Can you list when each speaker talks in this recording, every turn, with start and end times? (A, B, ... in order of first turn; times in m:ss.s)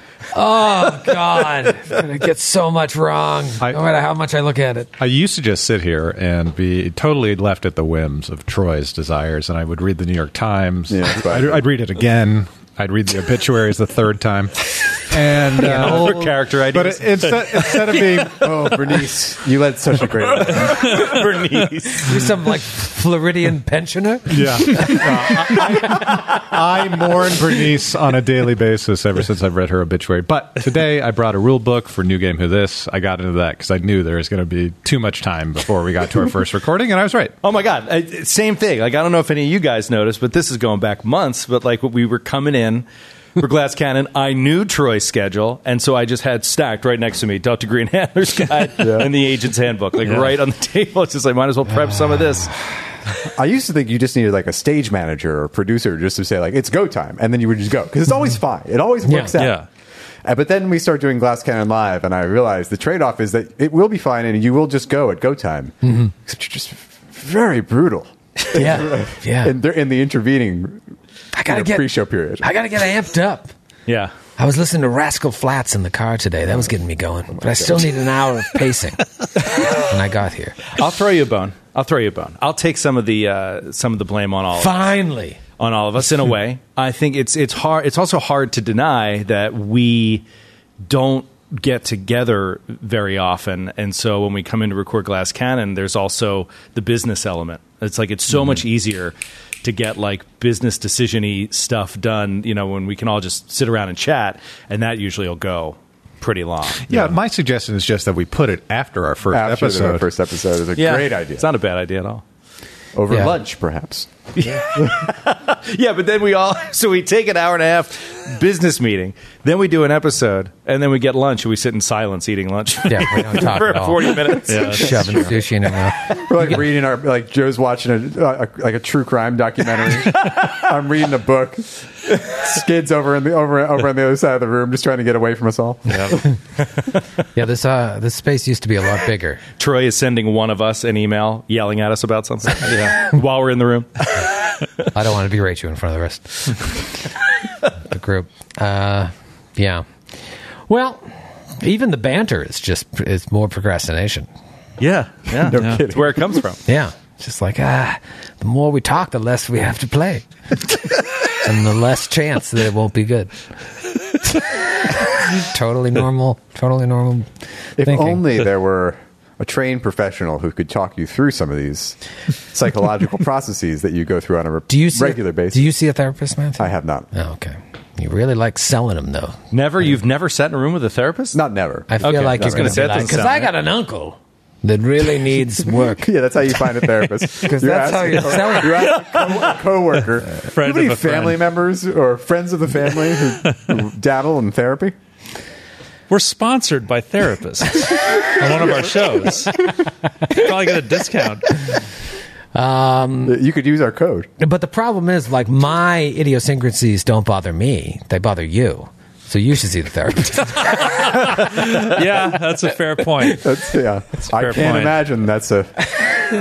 0:00.3-0:04.9 A
0:05.0-0:18.6 B
0:10.9-0:11.6 C
0:15.6-0:16.3 A
0:15.6-0:18.3 D
0:18.2-0:20.9 C
0:20.5-0:22.1 D
0:20.9-0:21.2 E
0:22.0-0:25.6 A
0:24.3-0:37.3 B
0:37.4-0:42.8 D
0:43.4-0:52.5 D
0:48.8-0:49.1 C
0:50.0-0:50.3 E
0:53.3-0:59.6 C
0:59.0-0:59.4 A
0:59.4-0:59.7 E
1:00.2-1:10.8 C
1:05.8-1:06.1 A
1:08.5-1:09.5 A
1:11.3-1:11.9 A
1:11.5-1:12.4 C
1:12.4-1:13.5 A
1:13.9-1:14.1 D
1:14.4-1:19.0 A
1:19.6-1:20.7 A
1:20.7-1:24.9 D
1:24.5-1:25.4 A
1:25.6-1:30.2 D
1:30.8-1:46.9 D
1:46.9-1:50.1 B
1:49.3-1:51.4 C
1:50.8-1:52.2 D
1:52.9-1:55.0 C
1:53.1-1:53.4 A
1:54.4-2:05.0 D
2:02.9-2:06.0 A
2:04.4-2:05.4 E
2:06.1-2:16.2 C
2:15.9-2:16.2 E
2:17.3-2:19.4 A
2:19.6-2:24.2 D
2:22.7-2:23.1 E
2:24.9-2:26.8 A
2:27.9-2:29.8 A
2:30.7-2:31.1 A
2:31.6-2:34.3 A
2:34.8-2:36.6 D
2:35.4-2:36.4 C
2:35.6-2:35.8 E
2:36.7-2:40.2 A
2:41.3-2:43.4 A
2:44.3-2:47.3 A
2:47.8-2:52.0 C
2:47.8-2:48.2 A
2:52.5-2:55.7 C
2:54.7-2:59.4 A
2:56.6-2:57.1 C
2:59.5-3:01.4 D
3:01.3-3:03.2 C
3:01.9-3:06.1 A
3:02.0-3:03.5 D
3:06.0-3:14.9 C
3:07.4-3:09.0 A
3:10.4-3:11.4 E
3:16.1-3:19.7 E
3:20.3-3:21.6 E
3:22.5-3:23.4 A
3:23.2-3:24.3 C
3:24.4-3:31.0 A
3:30.8-3:33.4 E
3:33.3-3:35.9 C
3:34.3-3:35.0 E